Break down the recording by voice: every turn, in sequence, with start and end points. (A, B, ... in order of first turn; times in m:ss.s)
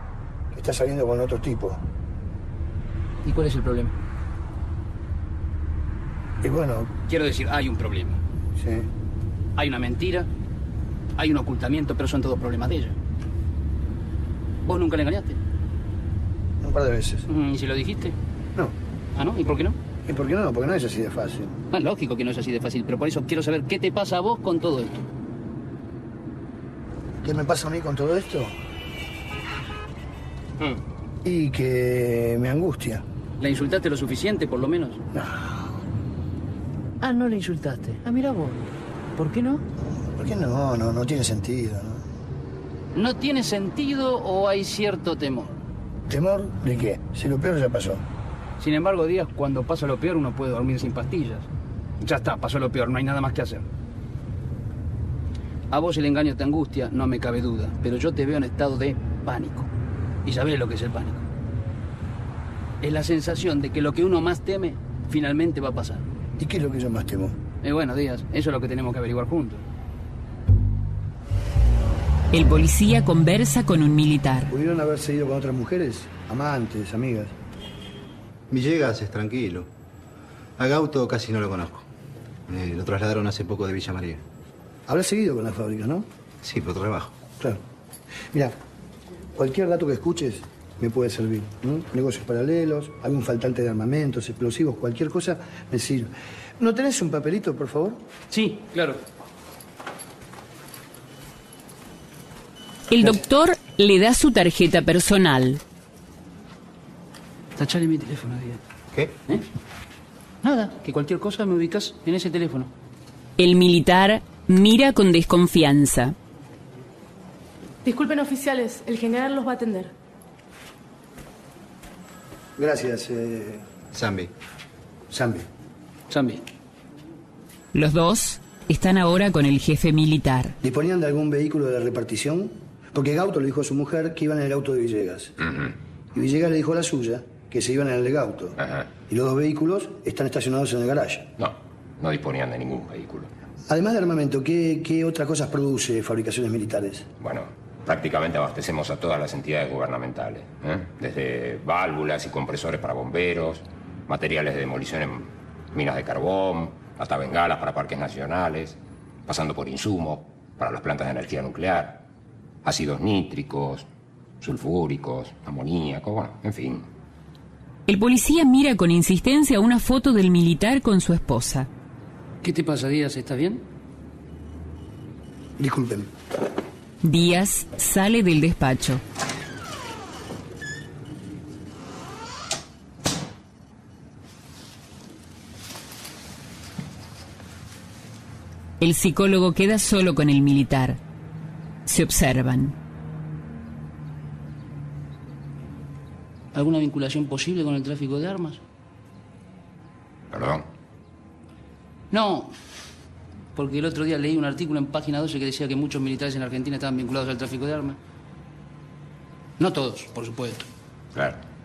0:00.5-0:01.8 A
0:03.2-0:03.9 B
0:06.4-0:06.9 A
0:07.1-0:08.2 B
0:08.6-0:08.9 A
0:09.6-0:10.3 B
0:11.2-0:13.0 B
0:14.6-0:15.4 B
0:16.6-0:17.3 A
0:17.3-0:18.2 B
0:19.2-0:19.8 B
0:20.1-0:21.6 A
0:21.7-0:25.0 B
0:27.2-0:28.5 A
0:31.2-0:33.0 A
0:33.4-0:35.0 B
0:35.1-0:35.5 A
0:37.0-0:39.6 B
0:40.2-0:42.0 A
0:42.9-0:45.6 B
0:46.1-0:48.0 A
0:48.6-0:51.5 B
0:52.0-0:53.6 B
0:55.7-0:59.7 B
1:00.2-1:01.2 B
1:02.8-1:06.0 B
1:06.4-1:07.4 A
1:07.6-1:09.6 B
1:12.3-1:14.5 C
1:14.5-1:17.3 A
1:18.5-1:19.7 D
1:20.6-1:21.8 D
1:22.5-1:24.2 D
1:24.9-1:26.1 A
1:26.4-1:27.1 D
1:29.3-1:38.0 A
1:38.3-1:39.0 B
1:42.9-1:45.6 C
1:47.6-1:48.6 B
1:50.4-1:52.7 B
1:53.4-1:56.1 C
1:57.8-1:59.9 E
2:02.6-2:03.6 A
2:03.9-2:04.3 D
2:05.1-2:05.5 A
2:06.1-2:06.4 B
2:07.7-2:10.5 C
2:10.6-2:15.3 A
2:16.1-2:21.3 A
2:18.6-2:18.8 F
2:21.4-2:23.3 F
2:23.7-2:27.1 A
2:27.2-2:42.0 F
2:42.6-2:43.8 F
2:44.4-2:46.9 F
2:47.9-2:51.7 C
2:52.4-2:53.6 B
2:55.6-2:56.1 A
2:57.0-2:59.0 C
3:08.8-3:11.0 C
3:11.8-3:12.8 C
3:16.5-3:18.6 B
3:20.3-3:20.7 F
3:22.1-3:22.5 B
3:23.5-3:28.0 B
3:29.6-3:30.7 B
3:31.1-3:31.4 F